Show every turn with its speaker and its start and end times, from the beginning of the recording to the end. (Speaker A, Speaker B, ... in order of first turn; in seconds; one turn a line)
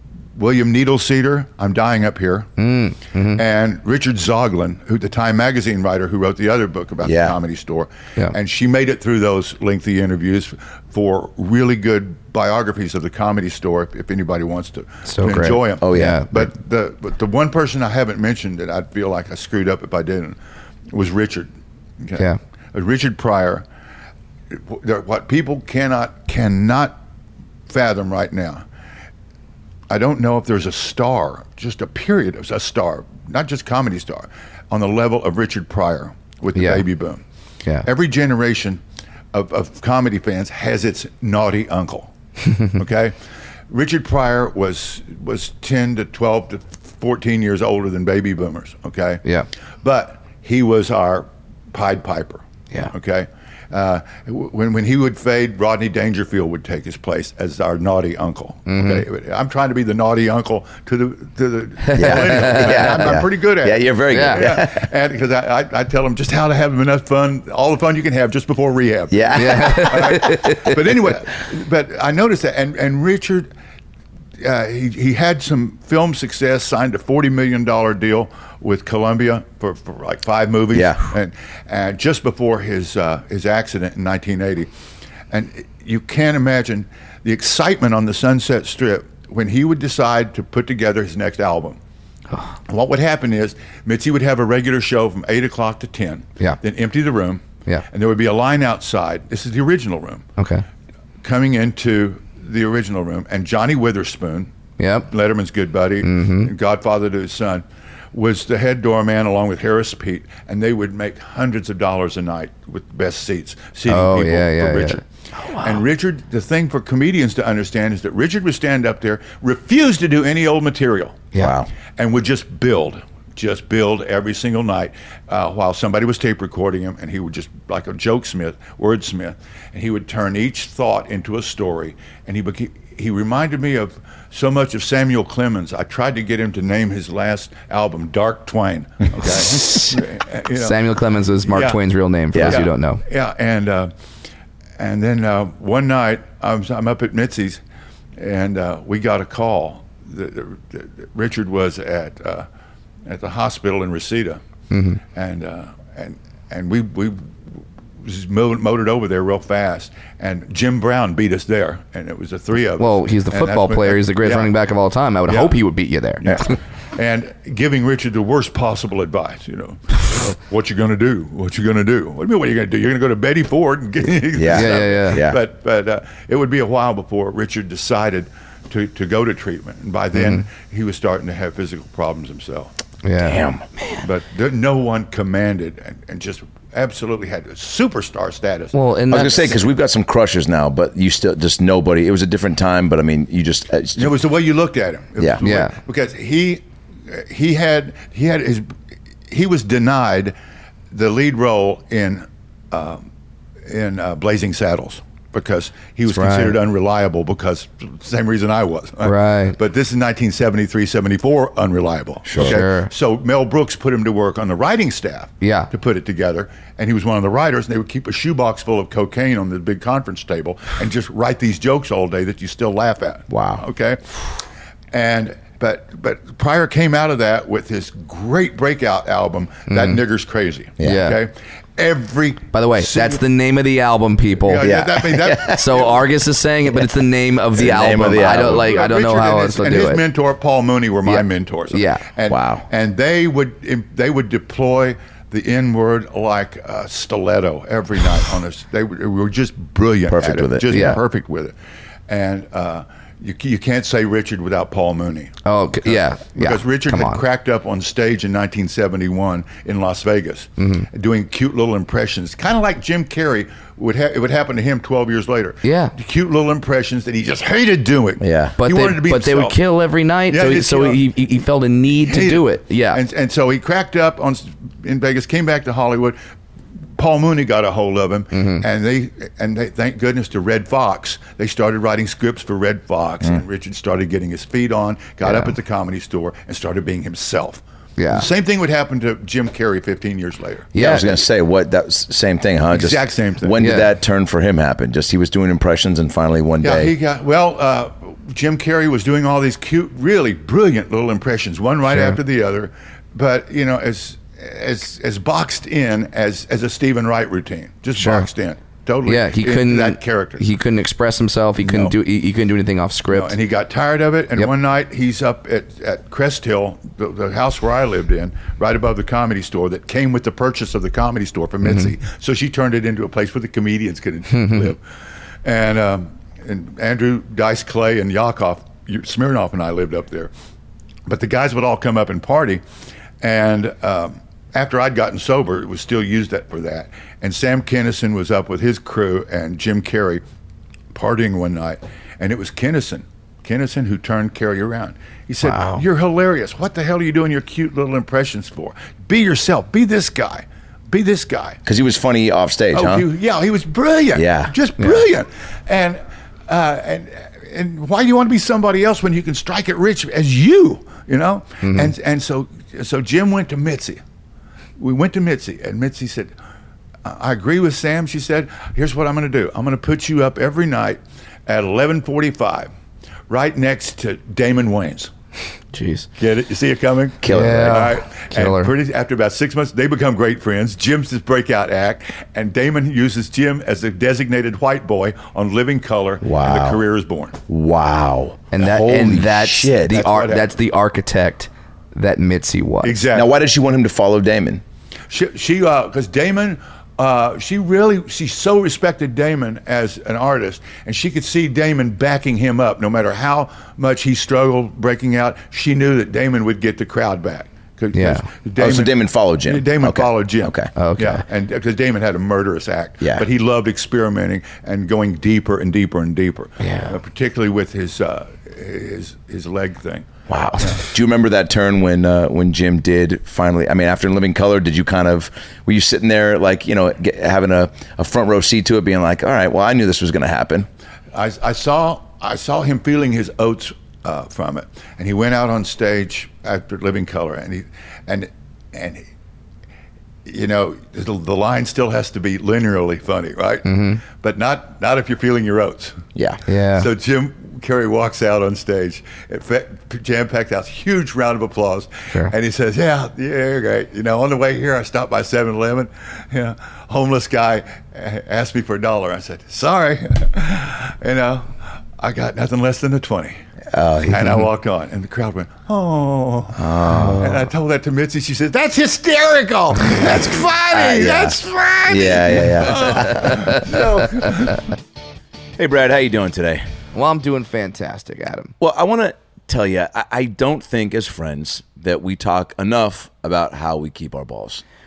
Speaker A: 0.4-2.5
Speaker B: 2.6-3.4
Speaker A: 3.3-23.7
Speaker C: 7.0-7.4
Speaker B: 15.1-16.5
Speaker C: 15.8-16.2
Speaker A: 24.5-27.0
Speaker A: 27.7-28.6
Speaker A: 29.9-37.2
Speaker B: 36.5-36.8
Speaker A: 37.8-38.8
Speaker A: 39.3-42.1
Speaker A: 42.7-43.2
Speaker A: 43.7-49.2
Speaker A: 49.8-73.5
Speaker B: 58.7-59.0
Speaker B: 61.8-63.2
Speaker C: 62.0-64.9
Speaker B: 64.1-64.5
Speaker C: 69.1-70.2
Speaker B: 69.4-70.8
Speaker A: 74.4-84.7
Speaker C: 80.7-81.0
Speaker A: 85.3-91.8
Speaker A: 92.7-100.3
Speaker B: 100.4-100.7
Speaker A: 101.2-104.5
Speaker B: 104.8-105.1
Speaker A: 105.0-115.0
Speaker B: 106.0-106.5
Speaker B: 113.9-115.8
Speaker A: 115.6-121.3
Speaker C: 121.4-121.7
Speaker A: 122.0-140.9
Speaker B: 140.6-143.0
Speaker A: 141.4-141.8
Speaker A: 142.4-143.9
Speaker A: 144.8-147.6
Speaker A: 148.2-152.5
Speaker A: 153.1-154.4
Speaker B: 154.7-155.0
Speaker A: 155.1-157.3
Speaker A: 158.0-164.5
Speaker B: 162.8-166.5
Speaker A: 165.3-165.6
Speaker A: 166.2-182.7
Speaker C: 174.4-175.4
Speaker B: 174.5-175.2
Speaker B: 180.2-180.4
Speaker B: 183.0-184.0
Speaker C: 183.2-183.6
Speaker A: 184.0-189.6
Speaker B: 188.7-189.6
Speaker C: 189.1-194.2
Speaker A: 194.0-198.7
Speaker B: 195.4-195.7
Speaker A: 199.3-200.3
Speaker A: 200.9-203.1
Speaker A: 203.7-224.4
Speaker B: 206.1-206.6
Speaker B: 209.0-209.6
Speaker C: 212.3-212.6
Speaker B: 212.4-212.9
Speaker B: 215.4-215.7
Speaker C: 223.3-223.6
Speaker A: 224.9-233.2
Speaker B: 229.7-230.0
Speaker B: 230.8-231.2
Speaker B: 232.5-234.7
Speaker A: 234.4-236.0
Speaker C: 234.6-235.7
Speaker B: 235.5-240.0
Speaker C: 237.6-238.7
Speaker A: 237.8-251.6
Speaker B: 241.1-242.0
Speaker C: 242.3-242.6
Speaker C: 250.1-250.8
Speaker B: 250.7-251.0
Speaker A: 252.1-269.6
Speaker B: 255.4-257.2
Speaker B: 260.6-260.9
Speaker B: 265.6-265.9
Speaker C: 268.2-268.6
Speaker B: 268.6-273.0
Speaker A: 270.3-271.1
Speaker A: 271.9-276.2
Speaker A: 277.0-290.9
Speaker B: 278.3-278.6
Speaker B: 285.2-285.5
Speaker B: 288.0-288.3
Speaker B: 290.8-291.1
Speaker C: 290.8-296.9
Speaker A: 292.7-293.6
Speaker B: 293.6-293.9
Speaker A: 296.6-310.5
Speaker B: 301.9-302.2
Speaker B: 308.0-308.3
Speaker B: 309.1-313.4
Speaker A: 311.6-312.0
Speaker A: 313.1-324.8
Speaker B: 321.6-321.9
Speaker B: 324.4-324.6
Speaker A: 325.4-330.3
Speaker A: 331.1-332.6
Speaker A: 333.2-340.2
Speaker A: 340.9-351.6
Speaker B: 345.5-345.8
Speaker C: 351.7-353.1
Speaker A: 352.7-364.0
Speaker C: 354.1-354.5
Speaker B: 361.6-361.9
Speaker A: 364.8-366.3
Speaker A: 367.0-372.7
Speaker A: 373.3-375.1
Speaker B: 375.7-376.1
Speaker A: 376.2-387.4
Speaker C: 377.2-377.9
Speaker B: 377.3-378.7
Speaker C: 386.2-386.8
Speaker C: 387.5-390.0
Speaker B: 388.5-393.0
Speaker A: 389.9-390.5
Speaker A: 392.8-393.4
Speaker C: 393.1-394.6
Speaker A: 395.1-420.8
Speaker B: 407.9-408.3
Speaker C: 408.6-410.7
Speaker B: 410.8-411.2
Speaker B: 416.6-417.0
Speaker C: 420.3-430.7
Speaker A: 431.1-439.1
Speaker A: 440.2-446.0
Speaker B: 443.7-444.0
Speaker B: 446.5-446.9
Speaker A: 446.7-463.4
Speaker C: 463.7-464.4
Speaker A: 464.1-474.6
Speaker C: 466.6-467.4
Speaker B: 466.9-467.2
Speaker C: 469.9-473.8
Speaker B: 472.9-473.6
Speaker C: 475.6-476.6
Speaker B: 476.9-478.5
Speaker C: 478.6-484.6